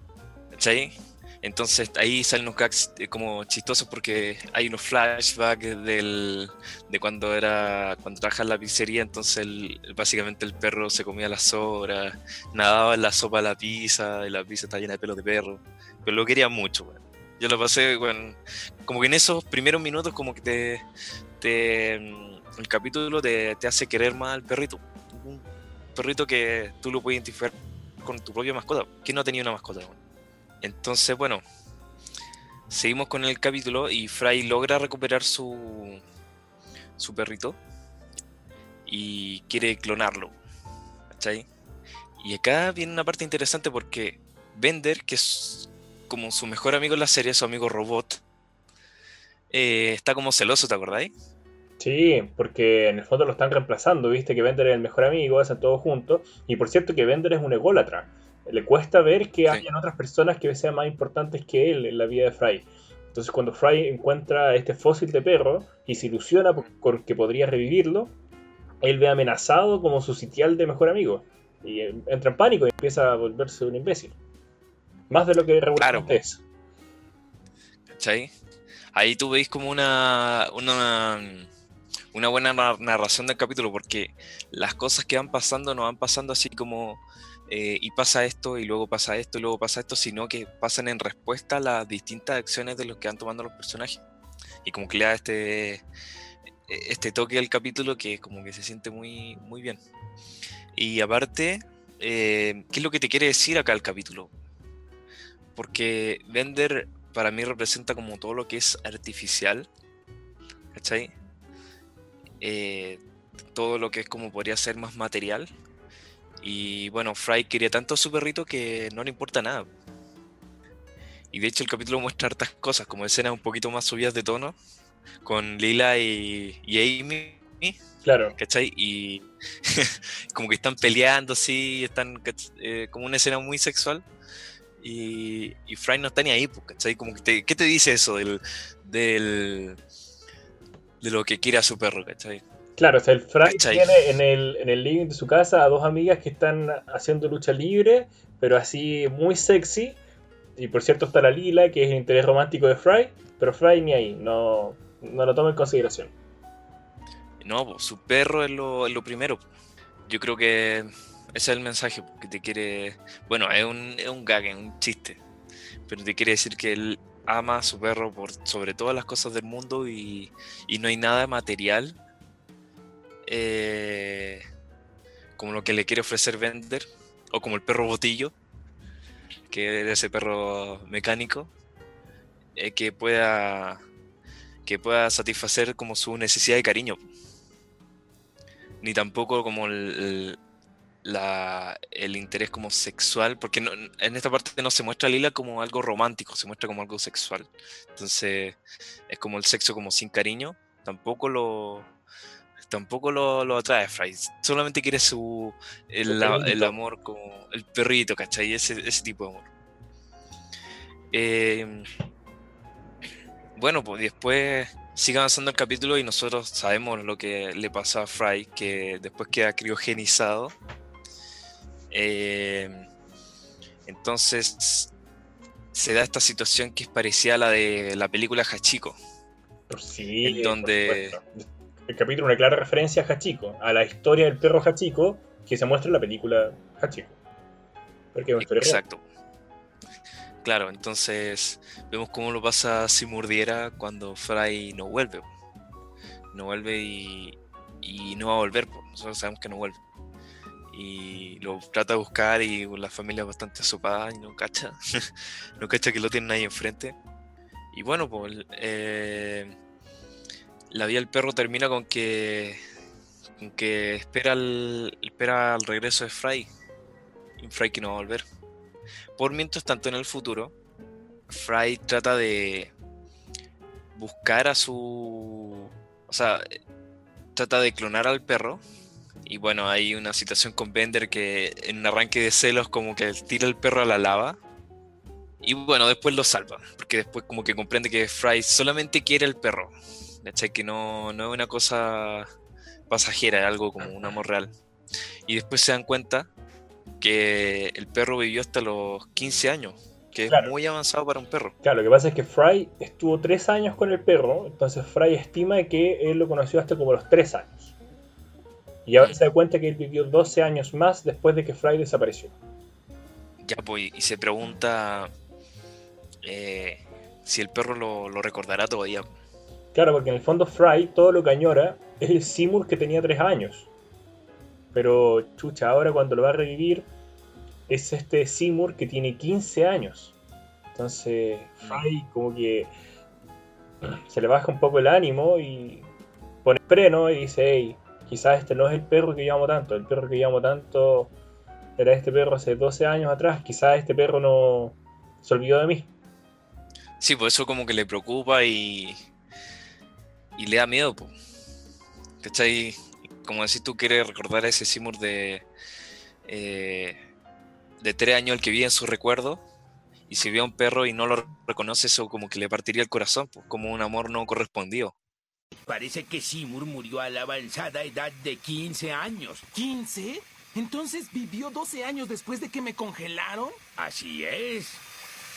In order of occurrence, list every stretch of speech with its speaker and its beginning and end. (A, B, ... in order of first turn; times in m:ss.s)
0:00.5-0:20.8 A
0:21.4-0:30.0 A
0:30.6-0:31.4 A
0:32.7-0:36.0 A
0:37.0-0:37.6 A
0:38.8-0:40.3 A
0:41.1-0:41.5 A
0:42.2-0:48.2 A
0:49.5-0:51.1 A
0:51.8-1:08.1 B
1:08.8-1:14.1 B
1:15.1-1:16.4 B
1:15.8-1:16.2 A
1:17.9-1:18.3 A
1:18.9-1:21.5 A
1:22.1-1:34.0 A
1:34.6-1:35.8 A
1:36.7-1:39.8 A
1:40.7-1:44.3 A
1:45.6-1:49.7 A
1:50.7-1:51.1 A
1:52.4-1:53.0 A
1:53.5-1:55.5 A
1:56.4-1:59.7 A
2:01.3-2:04.6 A
2:05.2-2:07.8 A
2:08.0-2:08.4 B
2:08.4-2:14.0 A
2:14.8-2:19.8 A
2:21.0-2:22.4 A
2:22.8-2:30.0 B
2:23.4-2:23.9 A
2:30.6-2:36.1 B
2:37.4-2:39.4 A
2:40.1-2:45.2 A
2:45.9-2:52.0 A
2:53.2-2:54.4 A
2:55.4-2:58.3 A
2:59.5-3:01.5 A
3:02.6-3:03.8 A
3:04.6-3:07.0 A
3:08.8-3:10.4 A
3:11.0-3:21.9 A
3:22.6-3:29.5 A
3:26.1-3:26.8 B
3:31.1-3:31.9 A
3:33.6-3:40.5 A
3:41.9-3:42.9 A
3:43.8-3:44.9 A
3:45.7-3:49.0 A
3:49.7-3:57.2 B
3:50.2-3:51.2 A
3:58.1-3:58.8 B
3:58.4-3:59.0 A
4:00.4-4:05.2 A
4:06.3-4:09.8 A
4:10.7-4:17.0 A
4:17.7-4:19.5 A
4:20.7-4:22.6 A
4:23.4-4:26.5 A
4:27.4-4:28.2 A
4:29.2-4:30.5 A
4:31.3-4:32.7 A
4:33.9-4:36.4 A
4:37.3-4:38.6 A
4:39.2-4:44.4 A
4:45.4-4:52.3 A
4:52.9-4:54.5 A
4:55.2-4:56.3 A
4:57.0-5:01.5 A
5:00.3-5:00.5 B
5:01.6-5:07.7 B
5:08.8-5:12.3 B
5:13.4-5:15.1 A
5:16.2-5:19.1 A
5:19.7-5:23.7 B
5:24.7-5:26.9 B
5:27.7-5:30.1 B
5:30.7-5:32.7 B
5:33.8-5:35.8 B
5:36.4-5:41.1 B
5:41.8-5:45.9 B
5:47.0-5:49.0 A
5:50.4-5:51.1 A
5:52.2-5:55.4 A
5:56.2-5:57.0 A
5:57.8-5:59.4 A
6:00.1-6:04.9 A
6:05.6-6:09.4 C
6:09.5-6:13.6 D
6:13.8-6:14.8 C